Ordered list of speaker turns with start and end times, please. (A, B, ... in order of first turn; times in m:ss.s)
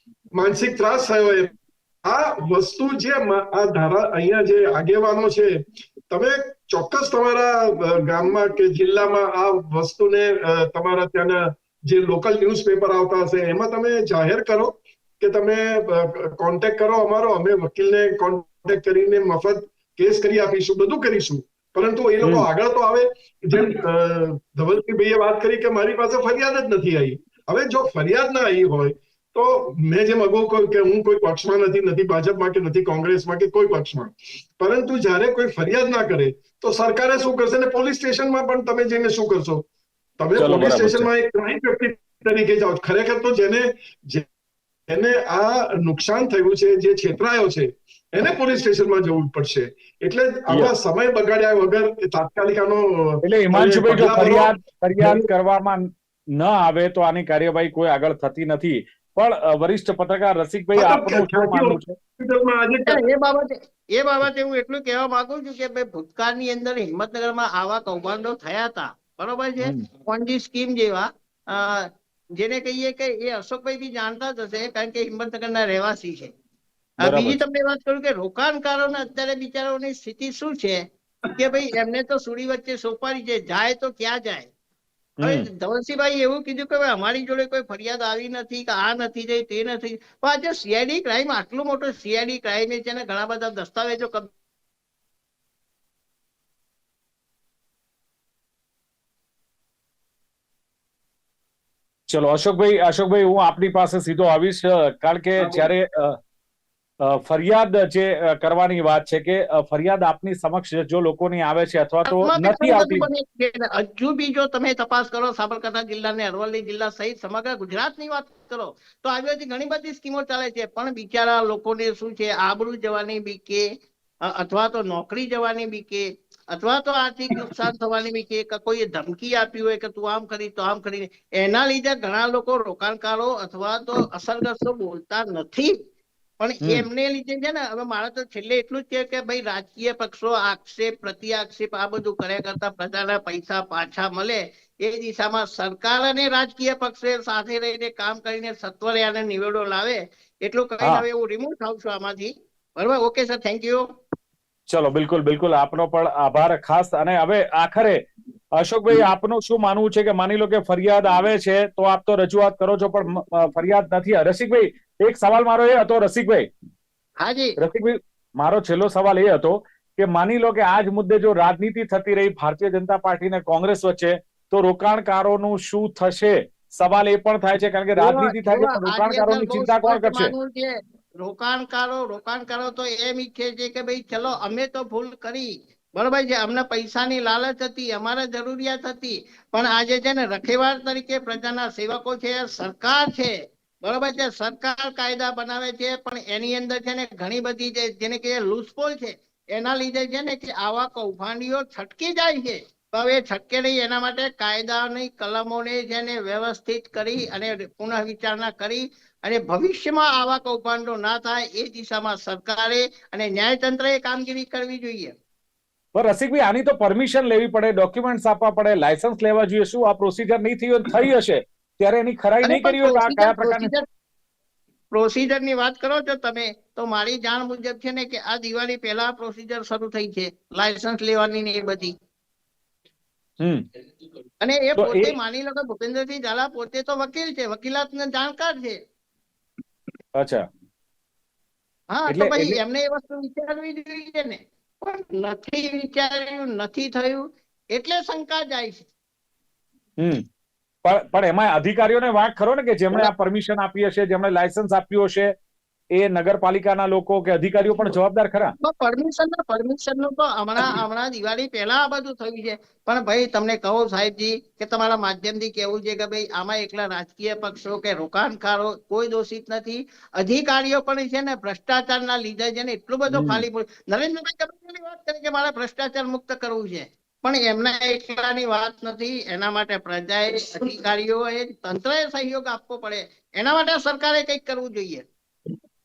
0:00.3-0:39.6 A
0:40.2-0:44.2 A
0:40.4-0:41.1 B
0:44.9-0:55.3 A
0:53.2-1:01.9 B
1:00.7-1:03.0 A
1:02.8-1:16.3 C
1:09.6-1:09.8 B
1:17.0-1:17.4 B
1:17.0-1:24.5 C
1:25.2-1:25.5 B
1:25.2-1:34.3 C
1:42.1-1:46.2 B
1:47.0-1:53.1 B
1:52.1-2:03.6 C
2:04.2-2:15.8 C
2:16.4-2:33.8 C
2:34.7-2:38.0 B
2:38.6-2:46.5 B
2:47.2-2:47.6 C
2:47.6-3:00.3 B
2:58.0-3:35.1 C
3:35.9-3:43.7 B
3:42.4-3:43.8 C
3:44.9-3:51.9 C
3:53.4-3:53.6 B
3:54.4-3:58.8 C
3:54.8-3:55.1 B
4:00.1-4:00.5 B
4:01.9-4:08.9 C
4:02.1-4:02.6 B
4:10.0-4:10.2 B
4:10.8-4:15.3 B
4:15.9-4:18.5 B
4:18.6-4:45.0 C
4:33.1-4:33.4 B